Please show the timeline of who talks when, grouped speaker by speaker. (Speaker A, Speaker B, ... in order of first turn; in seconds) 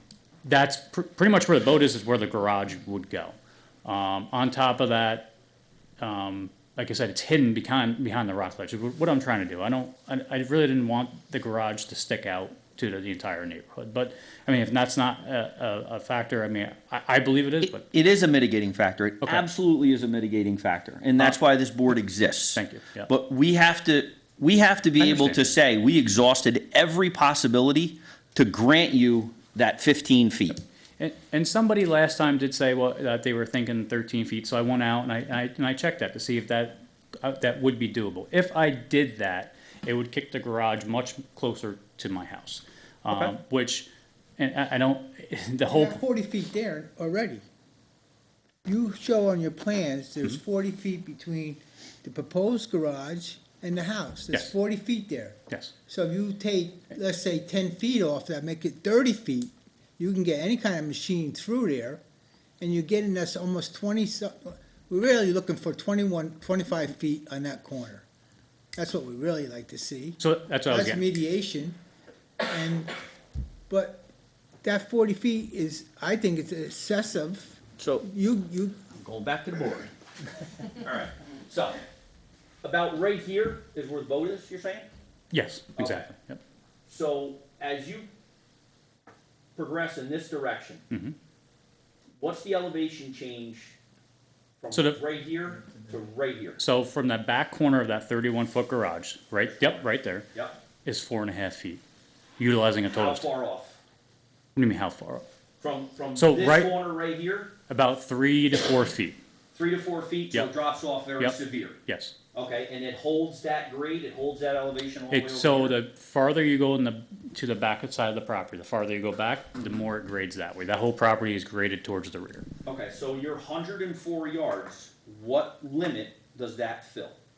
Speaker A: 0.4-5.3, 6.0-17.8, 22.5-23.1, 25.0-25.4, 31.0-46.0, 70.2-71.0, 85.3-86.4, 90.9-91.1, 94.7-95.0, 96.6-100.3, 100.8-101.8, 102.4-103.3, 104.5-105.2, 106.1-106.7, 107.7-109.2, 111.2-112.1, 115.1-122.5
Speaker B: 17.6-30.6, 43.1-43.3, 77.8-78.1, 79.0-79.9, 80.8-81.8, 82.6-84.9, 85.8-86.1, 86.8-88.1, 89.6-90.8, 92.2-93.8, 94.6-96.6, 102.9-103.8, 105.6-107.5, 109.5-111.8, 112.3-115.8, 122.6-127.2
Speaker C: 45.7-47.4, 48.6-62.0, 62.6-68.0, 68.8-71.8, 72.5-72.9, 73.7-74.1, 74.6-78.8